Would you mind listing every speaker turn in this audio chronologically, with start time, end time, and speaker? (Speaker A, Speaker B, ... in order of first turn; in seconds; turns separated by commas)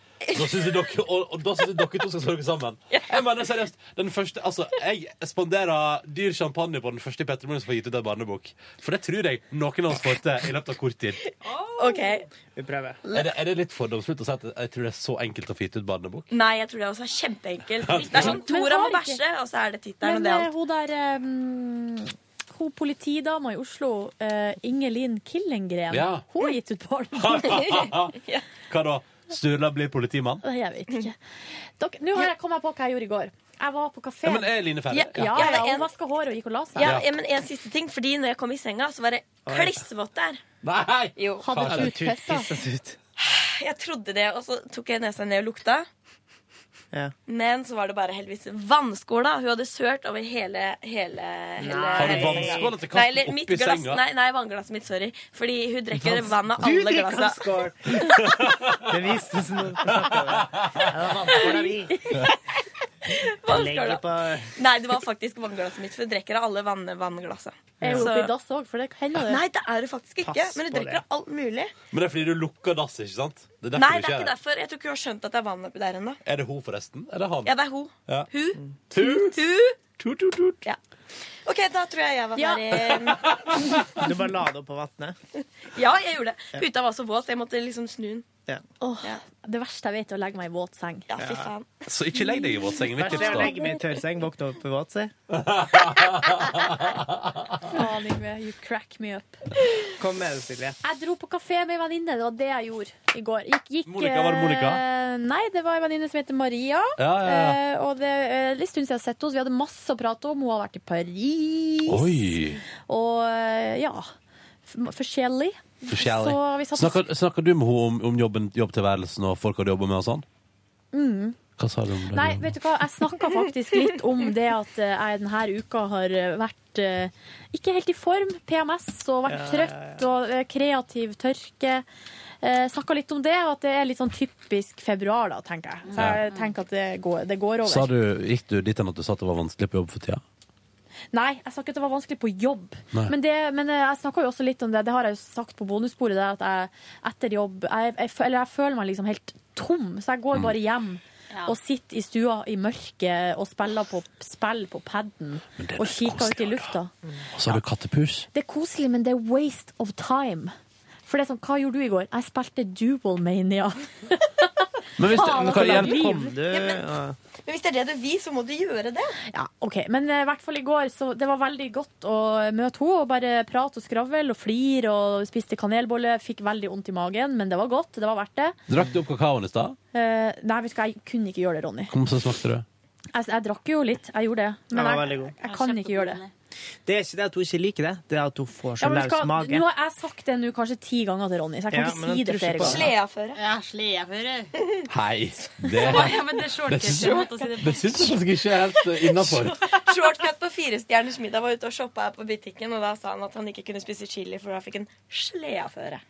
Speaker A: 0.2-0.8, Speaker B: 0.3-11.2, Speaker A: 2.9-3.2, Speaker C: 11.6-12.1, Speaker A: 11.7-12.3, Speaker D: 12.5-13.0, Speaker B: 13.1-16.3, Speaker A: 16.3-20.5, Speaker B: 17.8-18.4, Speaker E: 18.1-19.2, Speaker E: 20.0-27.7, Speaker B: 25.9-26.2, Speaker B: 27.1-28.1, Speaker A: 27.6-28.4, Speaker B: 28.7-30.4, Speaker E: 30.4-31.2, Speaker E: 31.8-36.9, Speaker B: 34.2-35.5, Speaker A: 34.9-35.9, Speaker A: 36.8-40.4, Speaker B: 36.8-37.0, Speaker D: 39.5-39.8, Speaker B: 40.6-41.9, Speaker A: 41.1-41.5, Speaker E: 41.4-42.5, Speaker D: 41.6-43.0, Speaker A: 43.2-45.9, Speaker A: 47.3-57.5, Speaker D: 51.6-52.7, Speaker B: 52.0-54.0, Speaker D: 56.0-62.1, Speaker B: 60.4-60.9, Speaker A: 61.2-62.2, Speaker A: 63.2-68.3, Speaker D: 63.5-64.5, Speaker D: 67.8-68.1, Speaker E: 67.8-69.4, Speaker A: 69.2-71.7, Speaker D: 70.2-71.0, Speaker B: 71.9-74.3, Speaker A: 73.7-76.2, Speaker B: 76.2-77.5, Speaker A: 77.4-79.8, Speaker B: 78.9-79.4, Speaker B: 80.0-80.6, Speaker A: 81.4-83.5, Speaker E: 82.3-82.6, Speaker D: 84.0-85.2, Speaker A: 85.7-88.3, Speaker E: 88.8-91.1, Speaker A: 91.1-91.8, Speaker D: 91.2-91.5, Speaker B: 91.9-93.5, Speaker E: 92.7-93.8, Speaker D: 92.9-95.1, Speaker B: 95.3-97.5, Speaker E: 97.7-99.4, Speaker D: 100.0-100.8, Speaker E: 100.8-112.2, Speaker B: 103.8-104.8, Speaker B: 107.0-107.6, Speaker B: 111.8-112.6, Speaker E: 112.9-114.1, Speaker E: 114.7-117.0, Speaker B: 115.9-120.2, Speaker E: 120.9-121.4, Speaker B: 121.6-122.5, Speaker E: 122.1-131.8, Speaker D: 129.3-130.0, Speaker E: 132.4-137.9, Speaker C: 135.9-136.5, Speaker B: 135.9-136.2, Speaker B: 137.6-140.2, Speaker E: 141.1-156.9, Speaker B: 155.6-156.8, Speaker B: 157.3-158.3, Speaker E: 158.3-160.5, Speaker E: 161.1-166.3, Speaker B: 165.0-166.1, Speaker D: 165.2-167.2, Speaker A: 166.4-166.8, Speaker A: 167.4-169.2, Speaker E: 169.3-178.6, Speaker B: 178.7-179.8, Speaker E: 179.9-181.9, Speaker B: 181.9-182.6, Speaker E: 183.1-186.2, Speaker D: 184.7-185.3, Speaker C: 185.4-186.3, Speaker D: 186.8-189.6, Speaker E: 188.8-192.8, Speaker D: 191.7-192.9, Speaker A: 192.6-193.4, Speaker C: 193.3-194.5, Speaker B: 194.9-199.6, Speaker C: 195.8-198.0, Speaker A: 195.9-196.2, Speaker A: 196.9-197.5, Speaker A: 198.9-206.0